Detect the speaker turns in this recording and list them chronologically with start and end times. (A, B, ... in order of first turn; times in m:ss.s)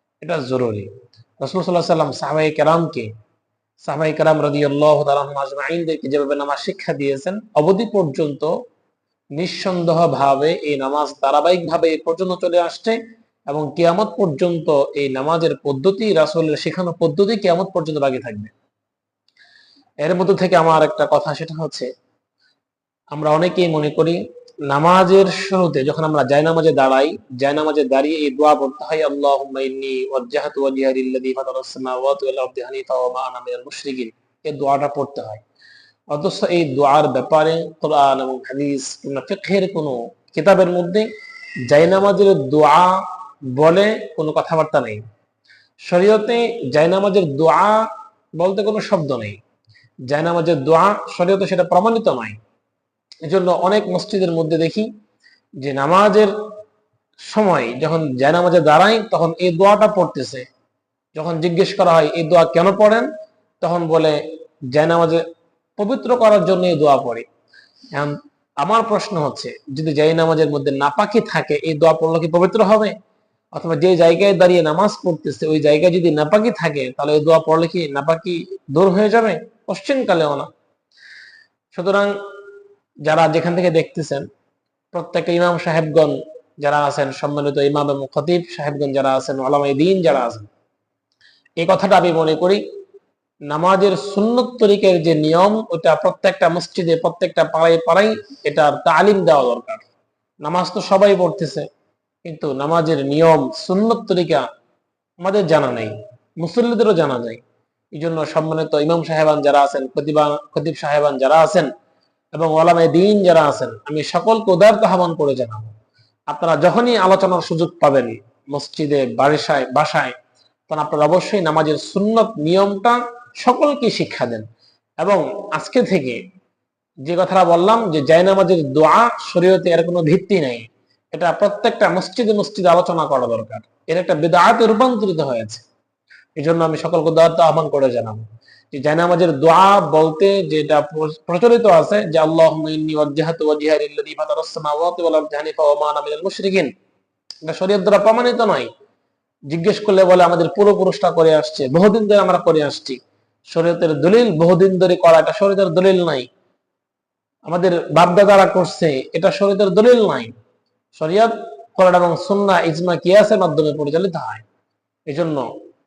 0:00.2-0:00.9 A
0:01.4-0:03.1 A
0:03.8-0:08.5 A
0:09.4-0:13.0 A
0:13.5-0:18.5 A
0:20.0-0:21.9 A
0:23.1-0:35.4 A
0:36.1-0:41.1 A
0:41.7-0:43.0 A
0:43.5-0:45.0 A
0:45.9-0:49.4 A
0:50.1-0:52.4 A
0:53.2-0:54.9 A
0:55.6-0:56.3 A
0:57.3-1:00.4 A
1:01.1-1:03.1 A
1:03.6-1:04.2 A
1:04.7-1:05.2 A
1:05.8-1:07.2 A
1:07.9-1:12.9 A
1:13.5-1:20.5 A
1:21.7-1:22.1 A
1:23.0-1:24.2 A
1:24.9-1:30.5 A
1:31.6-1:32.6 A
1:33.5-1:39.9 A
1:40.4-1:41.6 A
1:42.2-1:44.4 A
1:45.2-1:47.4 A
1:48.0-1:51.7 A
1:52.4-1:55.8 A
1:56.3-2:00.2 A
2:00.7-2:04.4 A
2:05.0-2:06.2 A
2:07.0-2:15.6 A
2:16.4-2:26.7 A
2:27.4-2:28.7 A
2:29.5-2:33.0 A
2:33.5-2:36.3 A
2:37.5-2:40.3 A
2:41.0-2:44.4 A
2:45.1-2:45.5 A